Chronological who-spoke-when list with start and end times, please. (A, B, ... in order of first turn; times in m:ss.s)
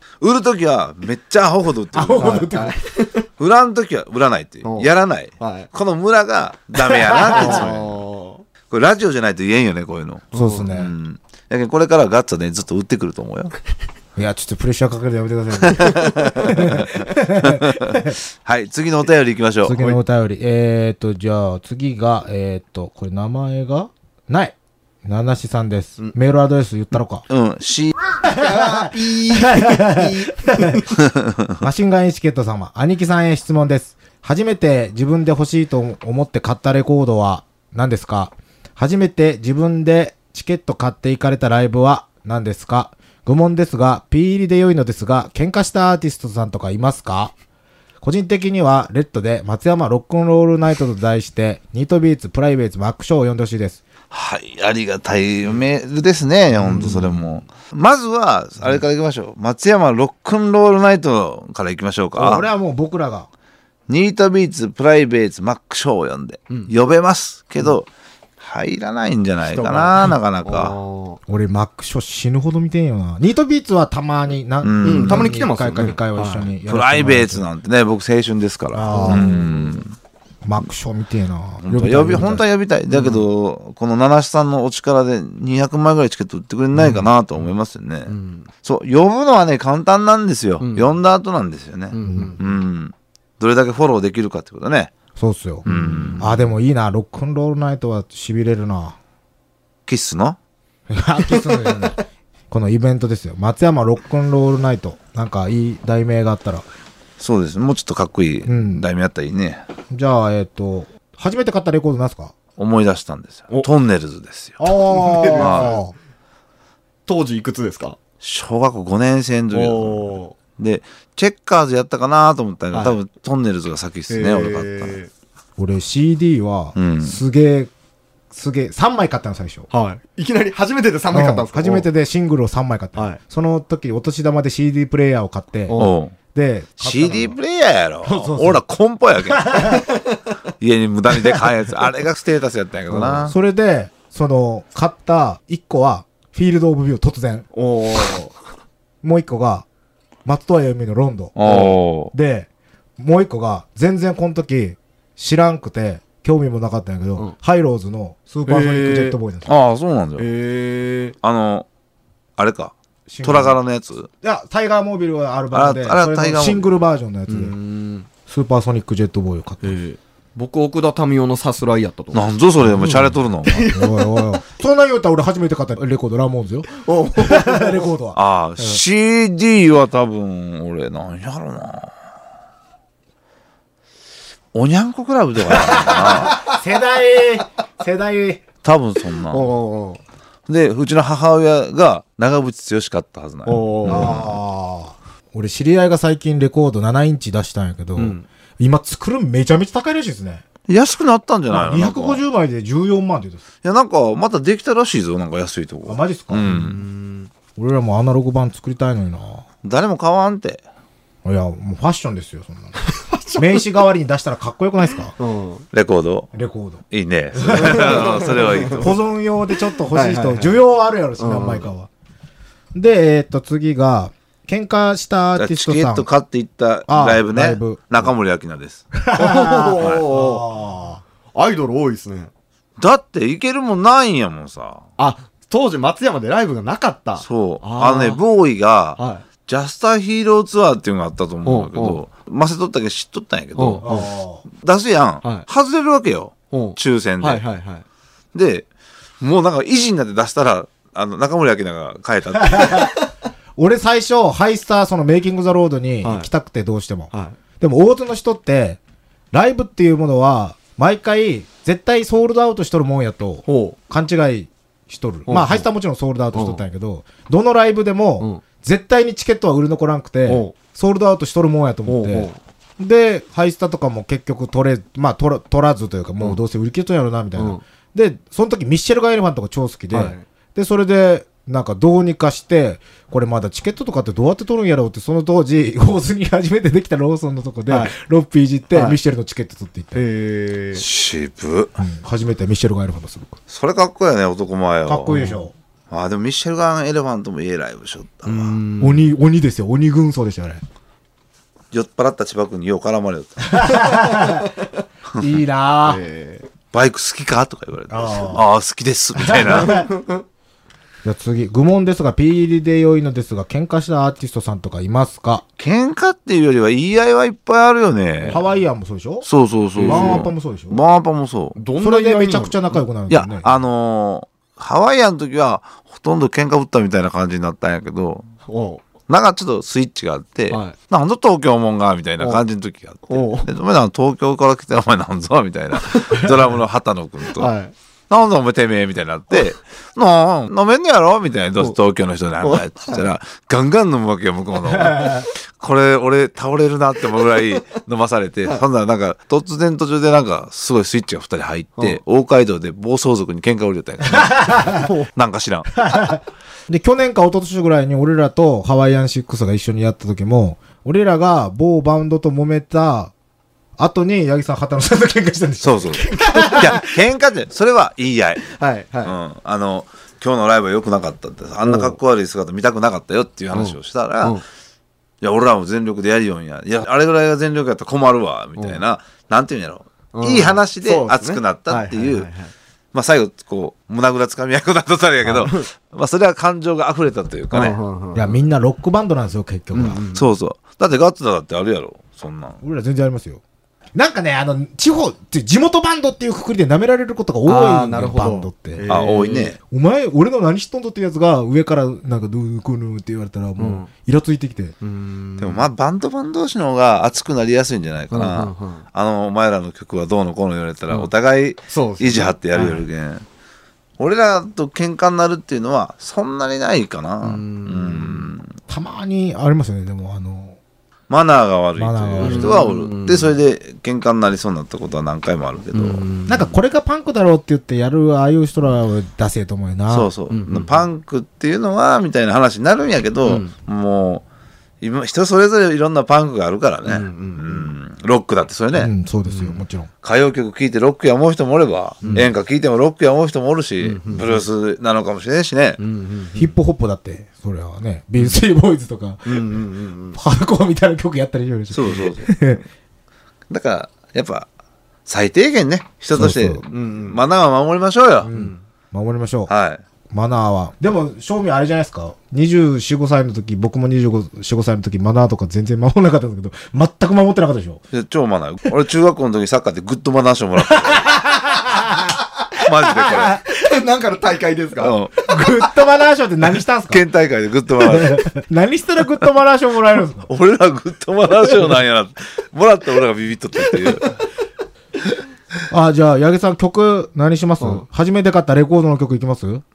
0:00.2-0:02.5 A
0:01.9-0:02.8 B
0:02.2-0:03.2 C
0:03.4-0:08.0 A
0:04.6-0:05.7 C
0:07.1-0:07.6 B
0:07.3-0:08.4 C
0:08.7-0:13.5 A
0:10.3-0:10.7 C
0:10.3-0:10.9 B
0:14.2-0:18.2 B
0:15.6-0:20.0 A
0:19.6-0:27.2 B
0:27.3-0:28.0 A
0:28.2-0:30.8 B
0:28.3-0:30.9 C
0:31.1-0:31.5 A
0:31.6-0:47.3 B
0:48.0-0:53.8 B
0:54.1-1:02.5 A
0:56.6-0:57.2 C
1:02.2-1:03.3 B
1:03.9-1:07.9 A
1:08.4-1:10.8 A
1:09.4-1:11.2 C
1:11.3-1:17.4 B
1:14.6-1:15.4 A
1:14.8-1:16.5 C
1:16.7-1:19.9 A
1:18.7-1:19.4 B
1:18.9-1:19.8 C
1:20.4-1:22.4 B
1:21.6-1:34.9 A
1:22.9-1:23.2 C
1:26.8-1:27.1 C
1:28.1-1:28.5 C
1:30.6-1:30.9 C
1:31.9-1:32.4 C
1:32.0-1:32.4 B
1:35.2-1:35.7 B
1:35.6-1:36.3 A
1:35.6-1:36.5 C
1:36.2-1:39.0 B
1:39.9-1:40.4 A
1:40.9-1:42.0 B
1:42.5-1:46.6 B
1:47.2-1:49.6 A
1:48.4-1:48.8 B
1:49.9-1:52.3 B
1:52.6-1:54.6 A
1:54.6-1:55.9 B
1:54.9-1:55.8 C
1:55.4-1:55.8 A
1:57.0-1:58.0 C
1:58.2-2:05.0 A
1:59.5-2:00.4 C
2:02.7-2:03.0 C
2:04.1-2:05.1 C
2:05.6-2:07.7 B
2:06.8-2:07.2 A
2:08.3-2:09.7 B
2:09.7-2:11.9 C
2:11.1-2:15.8 B
2:15.7-2:16.1 A
2:16.3-2:17.4 B
2:16.8-2:19.6 A
2:18.0-2:18.6 B
2:19.4-2:19.8 B
2:19.6-2:19.9 C
2:20.6-2:23.3 A
2:22.9-2:23.3 C
2:23.2-2:27.5 B
2:27.5-2:28.4 C
2:29.0-2:29.6 B
2:30.2-2:39.5 B
2:31.4-2:32.1 A
2:31.4-2:31.7 C
2:38.4-2:39.2 C
2:39.4-2:40.3 A
2:40.2-2:41.2 C
2:41.2-2:41.7 A
2:42.4-2:44.1 A
2:43.1-2:43.6 B
2:44.2-2:47.5 B
2:45.5-2:46.7 A
2:47.3-2:48.1 C
2:48.3-2:49.8 B
2:49.6-2:52.2 C
2:52.1-2:53.7 A
2:52.6-2:53.2 B
2:53.4-2:54.1 C
2:53.7-2:58.8 B
2:56.8-2:57.8 C
2:58.1-3:01.9 A
3:04.5-3:06.4 A
3:05.5-3:08.4 B
3:08.6-3:09.5 A
3:09.3-3:10.0 C
3:10.5-3:14.2 A
3:13.4-3:14.3 C
3:13.8-3:20.4 B
3:18.0-3:18.2 C
3:20.7-3:22.2 A
3:21.5-3:23.4 B
3:23.6-3:26.8 A
3:25.8-3:26.5 B
3:26.4-3:27.3 C
3:27.6-3:29.4 B
3:29.6-3:30.6 A
3:31.2-3:32.8 B
3:32.8-3:33.7 C
3:33.4-3:35.2 B
3:35.2-3:35.6 C
3:35.7-3:36.3 A
3:36.3-3:36.8 B
3:36.9-3:39.0 A
3:37.3-3:41.9 B
3:37.5-3:38.9 C
3:39.9-3:40.6 C
3:41.2-3:41.7 C
3:42.7-3:46.1 B
3:45.4-3:48.9 A
3:46.9-3:48.1 B
3:48.9-3:51.0 B
3:49.2-3:50.5 C
3:49.8-3:50.0 A
3:51.3-3:52.3 C
3:52.8-3:54.8 A
3:55.0-3:58.2 C
3:57.2-4:03.9 A
3:59.0-3:59.2 C
4:01.4-4:02.0 C
4:03.6-4:04.1 C
4:03.8-4:04.4 B
4:04.5-4:07.4 A
4:05.2-4:05.5 C
4:06.5-4:07.8 C
4:08.3-4:08.7 A
4:09.2-4:12.9 A
4:12.4-4:12.9 B
4:13.6-4:18.8 B
4:16.0-4:16.3 C
4:17.1-4:17.4 C
4:19.3-4:50.0 B
4:23.4-4:23.8 C
4:25.3-4:25.7 C
4:26.3-4:26.6 C
4:30.3-4:30.5 C
4:31.9-4:32.4 C
4:37.4-4:37.6 C
4:39.9-4:40.2 C
4:47.7-4:48.0 C
4:48.7-4:49.0 C
4:49.9-4:50.8 C
4:50.7-4:51.7 A
4:51.8-4:53.4 B
4:53.5-4:55.1 A
4:54.8-4:55.5 B
4:55.1-4:55.4 C
4:55.9-4:58.6 A
4:58.2-4:59.1 C
4:58.8-5:00.6 B
5:01.7-5:03.7 A
5:03.4-5:04.4 B
5:05.2-5:06.0 B
5:05.8-5:06.4 C
5:06.7-5:09.8 A
5:07.9-5:08.4 B
5:09.2-5:09.9 B
5:09.4-5:10.2 C
5:11.0-5:15.4 B
5:15.6-5:18.4 A
5:18.2-5:18.5 C
5:18.3-5:19.3 B
5:19.2-5:21.6 A
5:19.8-5:20.3 C
5:19.8-5:20.8 B
5:21.5-5:22.8 C
5:21.8-5:23.5 B
5:23.1-5:28.3 A
5:28.4-5:28.8 C
5:29.1-5:37.5 A
5:30.5-5:30.8 C
5:33.1-5:33.5 C
5:35.9-5:36.2 C
5:37.3-5:37.7 C
5:38.1-5:55.7 A
5:42.4-5:43.0 C
5:54.2-5:54.8 B
5:54.7-5:55.1 C
5:55.8-6:03.1 B
6:03.8-6:06.8 B
6:05.6-6:08.4 A
6:05.9-6:06.7 C
6:08.5-6:09.1 C
6:09.0-6:14.4 A
6:11.6-6:12.0 C
6:13.5-6:14.4 C
6:15.2-6:22.3 A
6:20.1-6:22.5 C
6:22.9-6:27.8 A
6:25.2-6:25.7 C
6:27.5-6:28.4 C
6:28.1-6:30.0 B
6:29.7-6:30.3 C
6:30.1-6:32.6 A
6:32.6-6:33.4 B
6:33.9-6:38.9 B
6:37.4-6:39.5 C
6:38.9-6:39.6 A
6:39.7-6:44.8 B
6:43.6-6:43.9 C
6:44.8-6:45.7 C
6:45.4-6:53.2 A
6:48.1-6:48.8 C
6:51.7-6:52.8 C
6:54.0-6:58.5 A
6:57.2-6:58.3 C
6:58.7-7:00.6 B
7:01.1-7:06.0 A
7:01.8-7:02.6 B
7:02.2-7:03.4 C
7:05.7-7:06.5 C
7:06.3-7:10.1 B
7:09.9-7:14.2 A
7:10.3-7:10.8 C
7:13.2-7:13.5 C
7:14.8-7:18.9 A
7:16.8-7:17.7 C
7:18.7-7:19.9 B
7:19.3-7:19.6 C
7:20.0-7:25.8 A
7:22.0-7:22.3 C
7:23.8-7:24.4 C
7:25.8-7:26.5 C
7:26.3-7:29.6 B
7:29.2-7:30.2 C
7:30.1-7:32.6 B
7:31.7-7:32.5 A
7:33.5-7:34.5 A
7:35.0-7:38.3 A
7:36.1-7:36.6 B
7:36.7-7:37.2 C
7:38.2-7:38.6 C
7:38.3-7:39.5 B
7:39.5-7:39.8 A
7:40.1-7:47.8 B
7:47.9-7:51.2 A
7:50.7-7:52.1 B
7:52.6-7:53.4 A
7:52.9-7:53.4 B
7:53.4-7:55.0 C
7:54.8-7:55.3 A
7:55.2-7:57.0 B
7:56.9-7:58.3 A
7:57.8-8:00.3 B
8:00.2-8:04.2 A
8:05.7-8:09.6 B